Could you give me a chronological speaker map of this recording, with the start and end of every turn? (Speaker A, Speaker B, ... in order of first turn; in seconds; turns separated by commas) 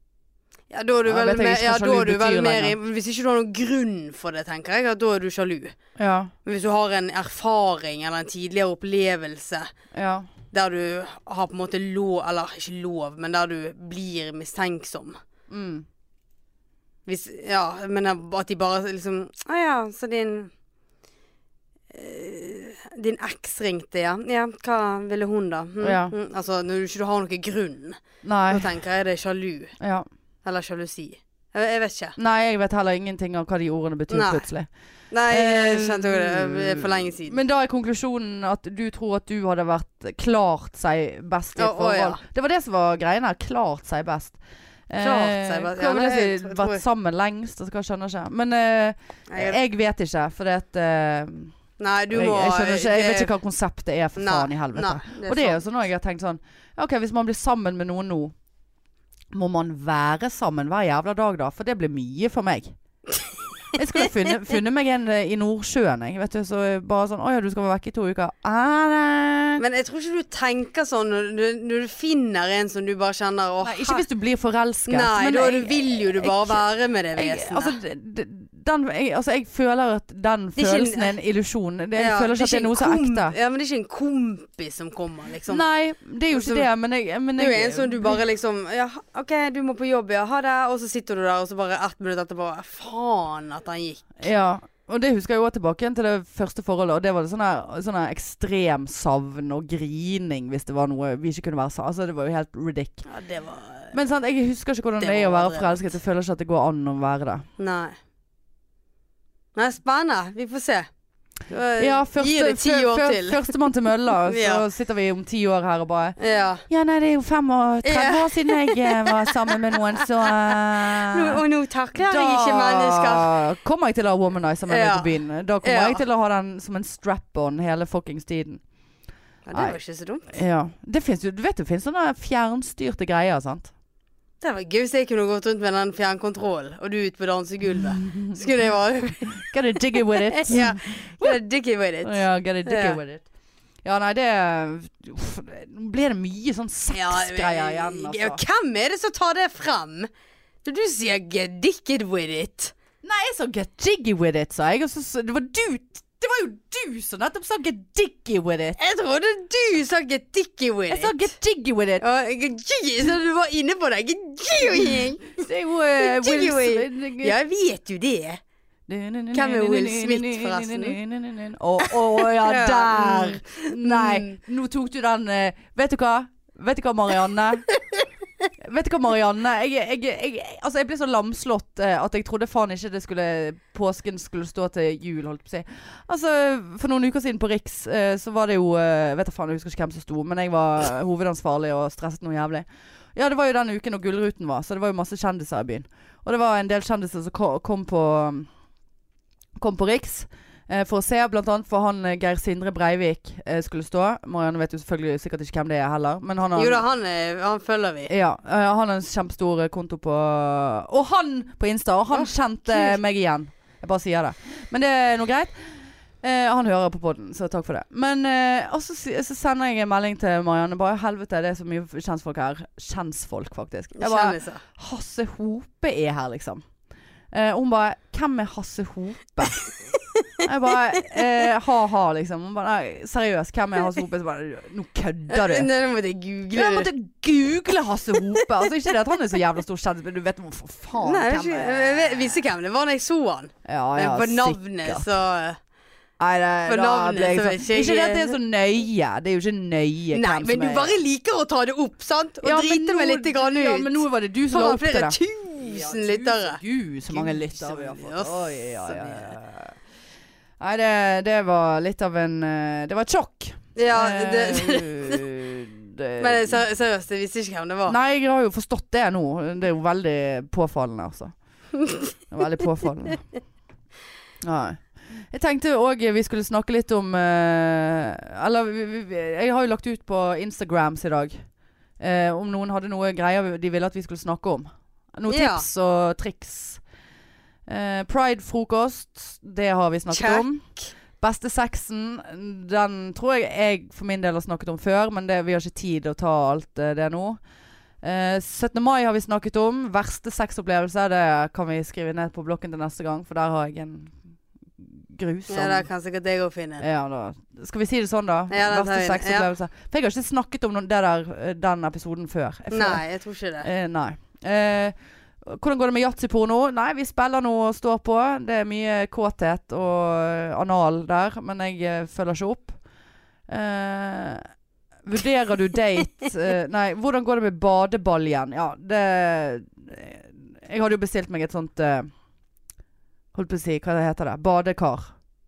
Speaker A: 0.7-5.8, Speaker B: 1.1-2.8, Speaker B: 6.0-6.3, Speaker A: 6.4-9.7, Speaker B: 9.9-10.3, Speaker A: 10.5-15.2, Speaker B: 15.5-15.8, Speaker A: 17.1-20.5, Speaker A: 21.9-29.8, Speaker B: 25.8-26.1, Speaker B: 28.2-28.7, Speaker B: 29.8-30.1, Speaker A: 30.4-32.1, Speaker B: 32.2-34.7, Speaker A: 34.1-34.5, Speaker A: 35.1-37.4, Speaker B: 35.3-44.4, Speaker A: 41.5-42.2, Speaker B: 44.9-51.5, Speaker A: 45.0-46.8, Speaker A: 49.3-49.6, Speaker A: 51.8-53.3, Speaker B: 52.1-58.3, Speaker A: 54.2-55.6, Speaker B: 59.3-62.7, Speaker B: 63.7-69.6, Speaker A: 69.6-74.0, Speaker B: 73.6-76.6, Speaker A: 74.9-77.8, Speaker B: 77.1-83.3, Speaker A: 80.5-81.1, Speaker A: 82.0-85.6, Speaker B: 85.5-88.2, Speaker A: 86.3-86.7, Speaker A: 87.4-94.2, Speaker B: 94.2-103.0, Speaker A: 103.0-103.9, Speaker B: 103.9-107.5, Speaker A: 105.0-105.9, Speaker A: 107.6-108.0, Speaker A: 109.5-110.9, Speaker A: 111.5-113.5, Speaker B: 111.8-116.2, Speaker A: 114.3-114.6, Speaker A: 116.2-116.6, Speaker B: 116.7-121.4, Speaker A: 117.8-119.8, Speaker A: 120.5-123.3, Speaker B: 122.0-128.6, Speaker A: 124.7-126.0, Speaker A: 129.4-130.4, Speaker B: 130.3-133.7, Speaker A: 134.4-139.4, Speaker B: 138.0-138.4, Speaker B: 139.3-141.4, Speaker A: 140.1-143.0, Speaker B: 142.0-143.2, Speaker B: 143.8-148.4, Speaker A: 146.9-150.1, Speaker A: 150.6-152.7, Speaker B: 153.0-158.8, Speaker A: 158.8-161.3, Speaker B: 160.9-162.0, Speaker A: 162.0-165.4, Speaker B: 165.4-167.3, Speaker A: 166.0-168.4, Speaker B: 168.9-177.7, Speaker A: 169.3-171.0, Speaker A: 171.8-174.4, Speaker B: 178.6-198.5, Speaker B: 199.6-206.8, Speaker A: 206.6-208.1, Speaker B: 208.1-215.5, Speaker A: 212.1-213.0, Speaker B: 216.2-226.6, Speaker A: 224.0-224.6, Speaker B: 227.3-229.6, Speaker A: 229.9-230.5, Speaker B: 230.4-235.7, Speaker A: 235.3-236.9, Speaker B: 236.5-242.4, Speaker A: 241.0-245.6, Speaker B: 243.6-245.1, Speaker B: 246.2-251.0, Speaker A: 246.7-248.4, Speaker A: 250.1-259.4, Speaker B: 252.4-259.7, Speaker B: 260.6-266.6, Speaker A: 263.8-265.2, Speaker A: 266.2-267.9, Speaker B: 267.9-271.3, Speaker A: 271.8-272.1, Speaker B: 272.3-273.2, Speaker B: 274.4-281.4, Speaker B: 282.0-286.8, Speaker A: 285.3-285.6, Speaker B: 287.7-290.6, Speaker A: 290.1-290.4, Speaker B: 291.2-297.4, Speaker B: 298.0-304.1, Speaker B: 304.8-305.9, Speaker A: 305.5-306.8, Speaker B: 306.8-313.0, Speaker A: 308.5-309.5, Speaker A: 312.7-313.7, Speaker B: 313.6-322.8, Speaker B: 323.5-324.4, Speaker B: 325.0-332.1, Speaker B: 333.3-335.1